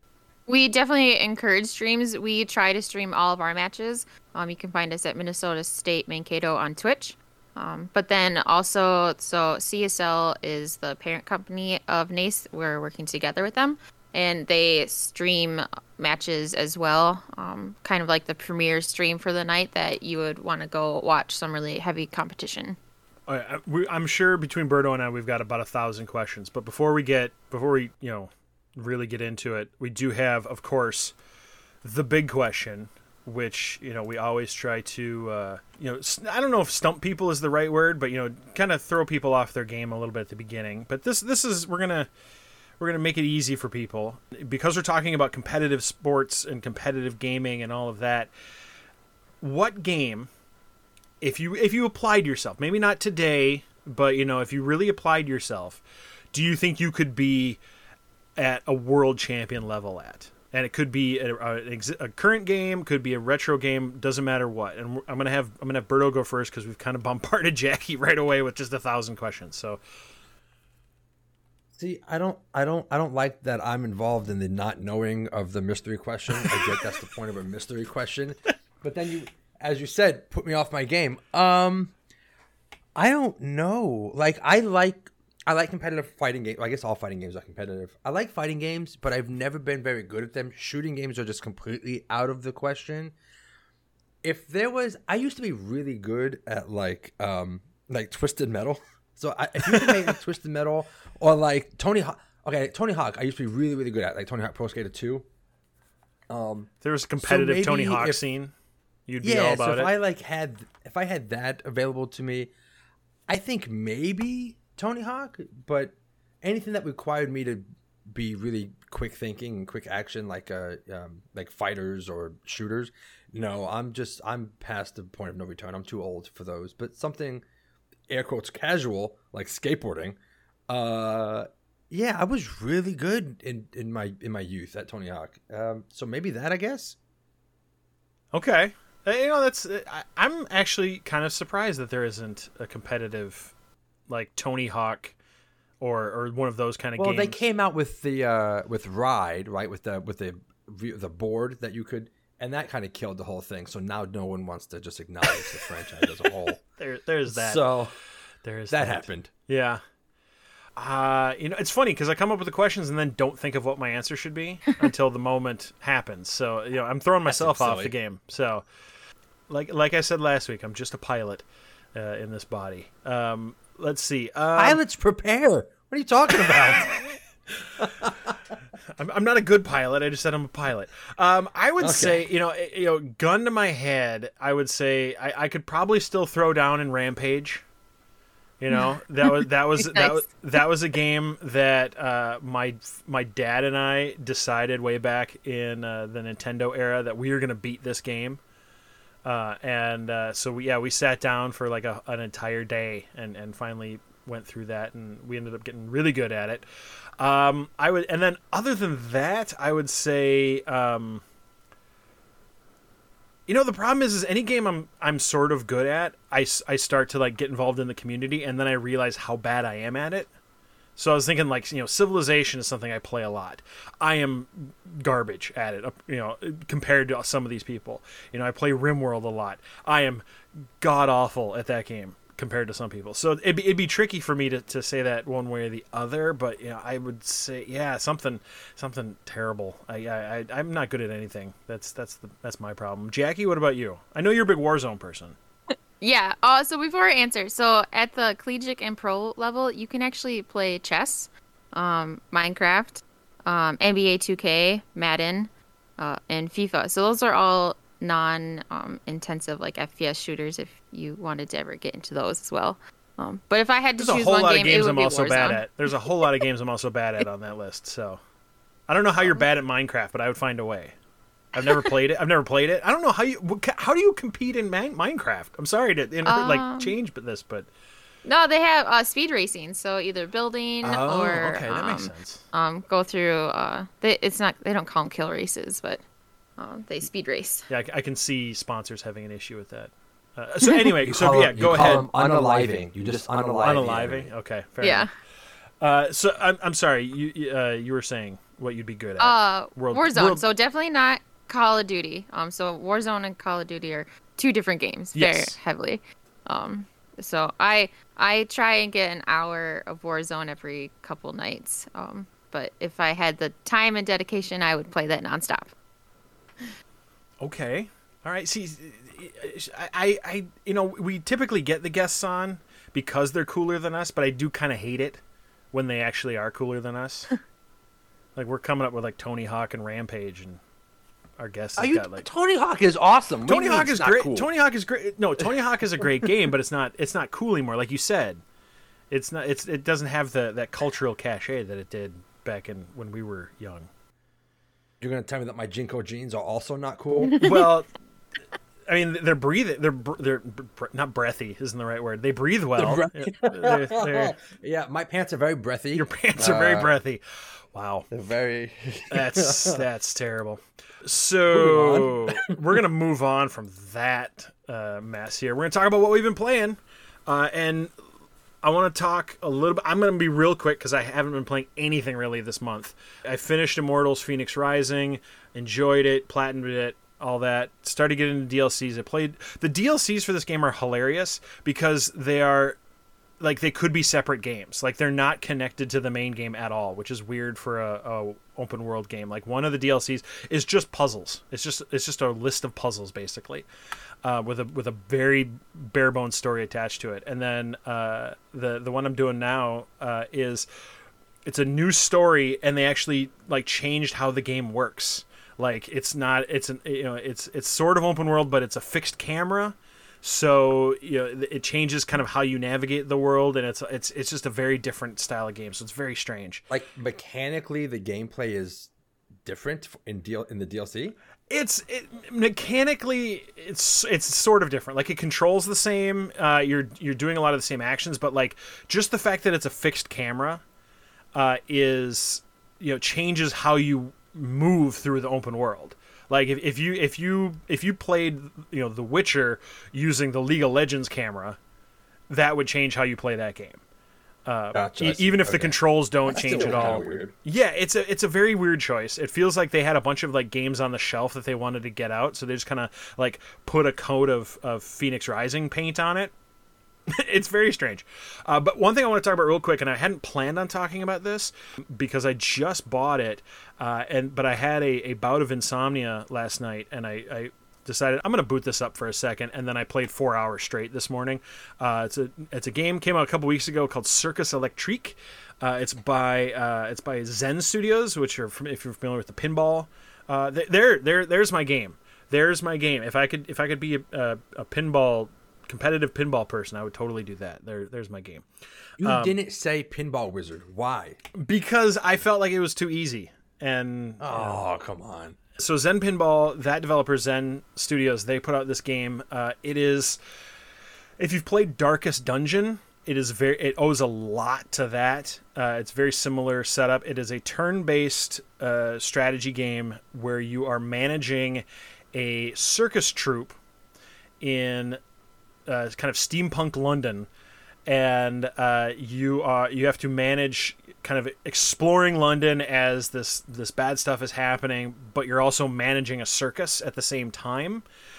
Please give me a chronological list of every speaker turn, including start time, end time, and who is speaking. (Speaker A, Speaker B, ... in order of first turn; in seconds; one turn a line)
Speaker A: 0.5-22.8
Speaker B: 23.3-31.1
Speaker B: 31.8-42.1
Speaker B: 42.8-48.3
Speaker B: 49.4-50.3
Speaker B: 51.2-57.6
Speaker B: 58.4-69.8
Speaker C: 71.8-81.9
Speaker C: 82.9-93.1
Speaker C: 94.2-105.2
Speaker B: 99.7-100.1
Speaker C: 106.3-108.2
Speaker B: 106.8-108.5
Speaker B: 109.1-109.9
Speaker C: 109.2-112.5
Speaker C: 113.3-127.4
Speaker C: 128.1-130.2
Speaker C: 130.7-136.9
Speaker B: 138.3-143.5
Speaker B: 144.1-145.1
Speaker B: 145.8-147.4
Speaker C: 147.0-156.6
Speaker B: 156.8-157.8
Speaker C: 157.3-157.9
Speaker B: 158.4-159.8
Speaker C: 158.7-159.3
Speaker B: 160.8-168.6
Speaker C: 167.3-167.9
Speaker B: 169.5-174.8
Speaker C: 174.6-177.0
Speaker C: 177.8-178.4
Speaker B: 178.9-187.6
Speaker C: 181.8-182.3
Speaker B: 188.6-198.4
Speaker A: 188.7-190.2
Speaker B: 199.2-206.6
Speaker B: 207.2-211.2
Speaker B: 213.5-220.3
Speaker B: 220.9-230.2
Speaker B: 230.8-245.3
Speaker A: 245.7-265.6
Speaker B: 264.0-268.2
Speaker B: 268.9-270.9
Speaker B: 271.5-277.7
Speaker A: 276.2-276.9
Speaker A: 278.2-286.0
Speaker B: 280.8-282.4
Speaker A: 286.6-287.7
Speaker B: 287.7-292.1
Speaker C: 291.1-294.3
Speaker B: 293.6-295.1
Speaker A: 294.8-295.1
Speaker B: 295.8-300.4
Speaker A: 299.2-315.7
Speaker B: 305.1-305.6
Speaker B: 317.4-325.2
Speaker B: 325.7-327.3
Speaker B: 328.4-330.6
Speaker B: 331.4-332.2
Speaker C: 331.8-334.5
Speaker B: 333.4-338.4
Speaker B: 339.1-343.9
Speaker C: 345.0-347.4
Speaker A: 347.3-347.6
Speaker B: 347.4-347.9
Speaker B: 348.9-354.3
Speaker C: 352.8-356.9
Speaker B: 355.9-357.2
Speaker B: 357.7-358.1
Speaker C: 358.1-359.8
Speaker B: 359.1-367.9
Speaker C: 361.5-362.6
Speaker B: 368.6-382.8
Speaker B: 383.4-393.6
Speaker B: 394.2-400.7
Speaker B: 401.4-416.6
Speaker C: 416.7-418.9
Speaker C: 419.4-421.1
Speaker B: 421.5-430.6
Speaker B: 431.3-441.6
Speaker B: 442.3-443.8
Speaker B: 444.4-456.3
Speaker C: 444.7-447.3
Speaker B: 457.1-488.4
Speaker C: 489.0-491.2
Speaker B: 489.0-489.4
Speaker B: 491.4-494.6
Speaker C: 494.2-495.4
Speaker B: 495.6-500.2
Speaker B: 501.2-513.5
Speaker B: 514.4-515.0
Speaker B: 515.6-517.3
Speaker B: 517.9-527.8